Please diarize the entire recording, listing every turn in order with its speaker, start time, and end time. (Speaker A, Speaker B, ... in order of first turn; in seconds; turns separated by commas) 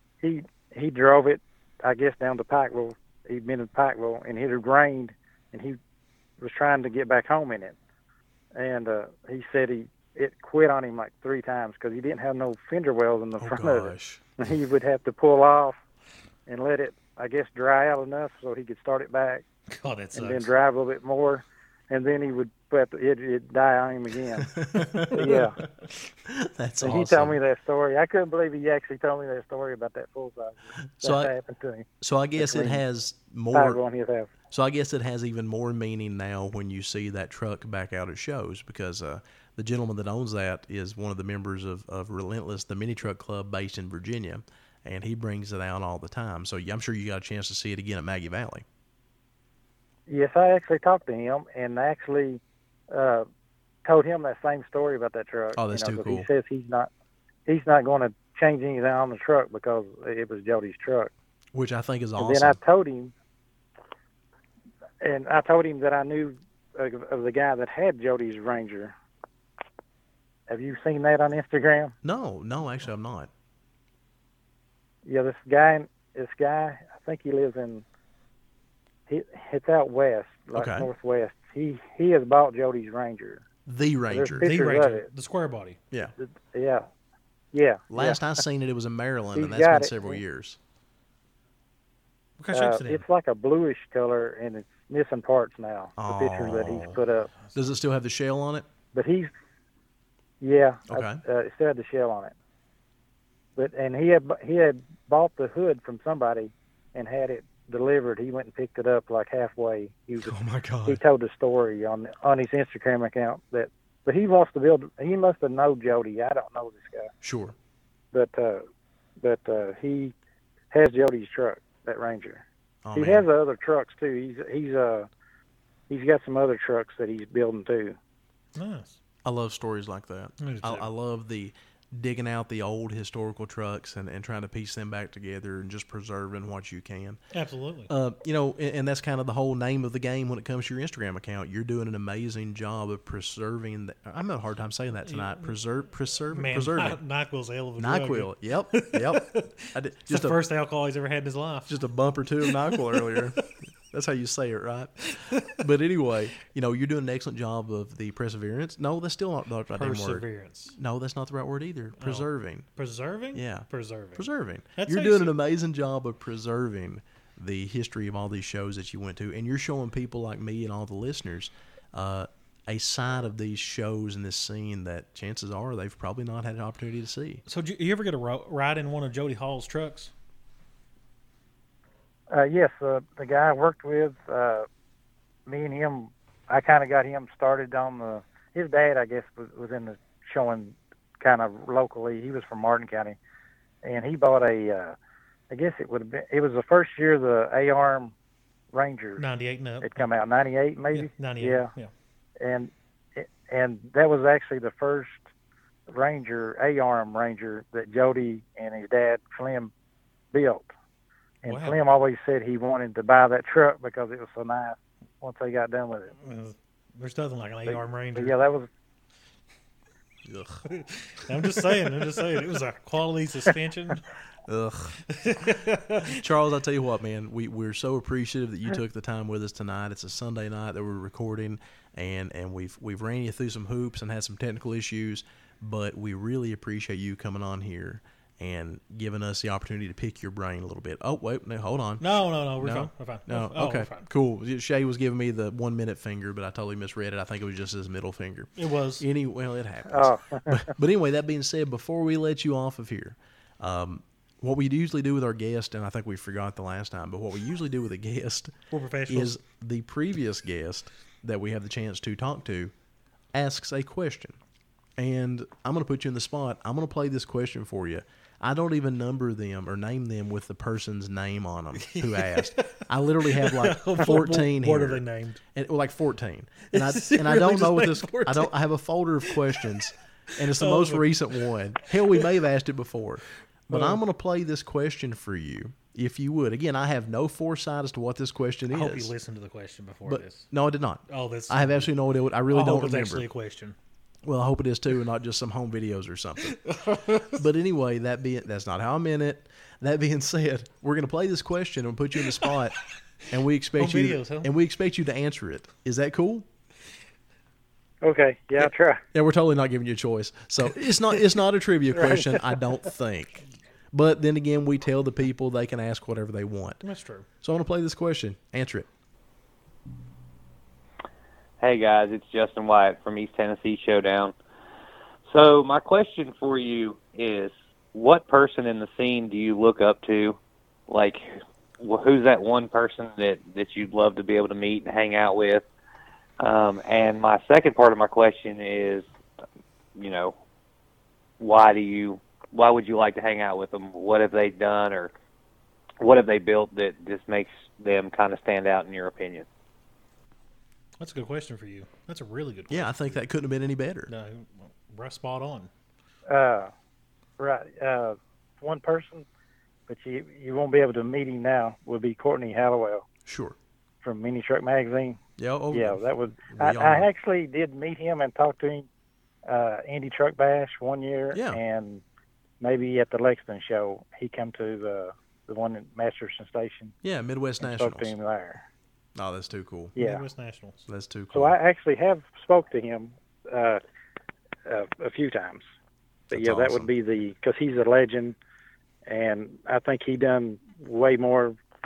Speaker A: 0.2-5.8, Speaker A: 6.4-7.8, Speaker A: 8.5-15.8, Speaker B: 13.4-14.2, Speaker A: 16.5-19.4, Speaker C: 19.7-20.5, Speaker A: 20.1-24.5, Speaker B: 24.4-25.5, Speaker A: 25.1-25.6, Speaker B: 26.2-27.4, Speaker A: 26.8-31.9, Speaker B: 31.0-31.3, Speaker B: 32.0-33.8, Speaker A: 32.4-32.8, Speaker A: 33.5-34.3, Speaker B: 34.5-48.6, Speaker A: 50.1-53.3, Speaker A: 53.8-56.9, Speaker B: 55.5-56.3, Speaker A: 57.5-61.1, Speaker B: 61.5-62.6, Speaker A: 62.2-63.1, Speaker A: 65.0-68.9, Speaker A: 70.5-71.9, Speaker B: 72.0-73.3, Speaker A: 75.0-77.8, Speaker A: 79.1-83.4, Speaker B: 80.5-80.9, Speaker B: 83.7-84.5, Speaker A: 84.1-85.1, Speaker C: 84.4-85.8, Speaker A: 86.2-86.9, Speaker A: 87.5-88.2, Speaker B: 87.9-90.6, Speaker A: 89.3-90.2, Speaker C: 92.4-93.0, Speaker A: 92.5-97.3, Speaker B: 96.0-97.0, Speaker B: 97.5-98.7, Speaker A: 98.9-99.3, Speaker A: 100.4-102.3, Speaker B: 100.9-101.2, Speaker A: 103.5-117.1, Speaker B: 110.2-111.0, Speaker B: 117.2-117.5, Speaker A: 118.1-118.7, Speaker A: 119.2-120.1, Speaker A: 120.7-125.1, Speaker B: 122.8-123.3, Speaker A: 125.9-128.0, Speaker C: 128.5-129.0, Speaker B: 129.2-137.2, Speaker C: 130.4-130.9, Speaker C: 137.3-137.9, Speaker B: 137.9-147.0, Speaker C: 145.1-145.5, Speaker C: 146.3-151.8, Speaker B: 147.8-150.4, Speaker B: 151.7-162.7, Speaker C: 152.4-153.4, Speaker C: 155.2-155.6, Speaker C: 159.7-160.8, Speaker C: 162.0-165.3, Speaker B: 163.3-177.4, Speaker C: 177.5-180.1, Speaker A: 182.3-184.7, Speaker A: 185.5-193.2, Speaker A: 193.8-194.9, Speaker A: 195.5-198.1, Speaker A: 198.7-199.2, Speaker C: 199.2-200.0, Speaker A: 199.8-201.7, Speaker C: 200.9-201.9, Speaker A: 202.4-205.2, Speaker A: 205.9-209.7, Speaker A: 210.3-210.7, Speaker A: 211.4-216.1, Speaker C: 211.4-211.8, Speaker C: 216.2-218.3, Speaker A: 217.7-218.7, Speaker B: 220.2-220.7, Speaker C: 220.7-224.0, Speaker B: 224.4-225.0, Speaker C: 225.1-226.2, Speaker B: 226.0-242.1, Speaker C: 242.0-244.1, Speaker B: 242.6-258.5, Speaker C: 248.6-249.0, Speaker A: 249.9-250.7, Speaker C: 258.7-259.4, Speaker B: 259.1-262.7, Speaker B: 263.3-264.4, Speaker B: 265.0-275.0, Speaker C: 271.8-275.4, Speaker B: 275.5-289.1, Speaker C: 276.7-278.5, Speaker C: 279.2-279.8, Speaker C: 280.4-281.3, Speaker C: 283.7-284.0, Speaker C: 288.7-290.5, Speaker B: 290.1-293.3, Speaker C: 291.1-291.9, Speaker C: 292.5-293.8, Speaker B: 294.2-296.6, Speaker C: 296.4-297.4, Speaker B: 297.1-302.8, Speaker B: 303.3-306.4, Speaker C: 303.8-304.5, Speaker A: 308.0-309.0, Speaker B: 309.1-316.8, Speaker A: 312.0-312.4, Speaker C: 316.8-317.2, Speaker B: 317.4-318.9, Speaker D: 321.6-324.3, Speaker D: 325.3-331.2, Speaker D: 331.8-335.6, Speaker D: 336.4-339.1, Speaker D: 339.9-340.3, Speaker D: 341.4-345.1, Speaker D: 346.0-349.5, Speaker C: 351.0-353.2, Speaker B: 352.7-354.1, Speaker C: 354.1-355.7, Speaker A: 356.3-356.7, Speaker A: 357.4-359.2, Speaker A: 359.9-363.0, Speaker B: 363.2-363.6, Speaker A: 364.0-365.2, Speaker B: 365.4-367.1, Speaker A: 365.7-368.9, Speaker A: 369.4-372.0, Speaker B: 371.3-371.6, Speaker A: 372.6-376.9, Speaker B: 377.0-378.1, Speaker A: 377.6-378.6, Speaker B: 379.1-379.9, Speaker A: 379.9-380.2, Speaker C: 380.0-380.8, Speaker B: 380.9-381.6, Speaker A: 381.3-383.8, Speaker A: 384.6-385.6, Speaker A: 386.3-388.4, Speaker B: 386.3-386.9, Speaker A: 389.1-391.6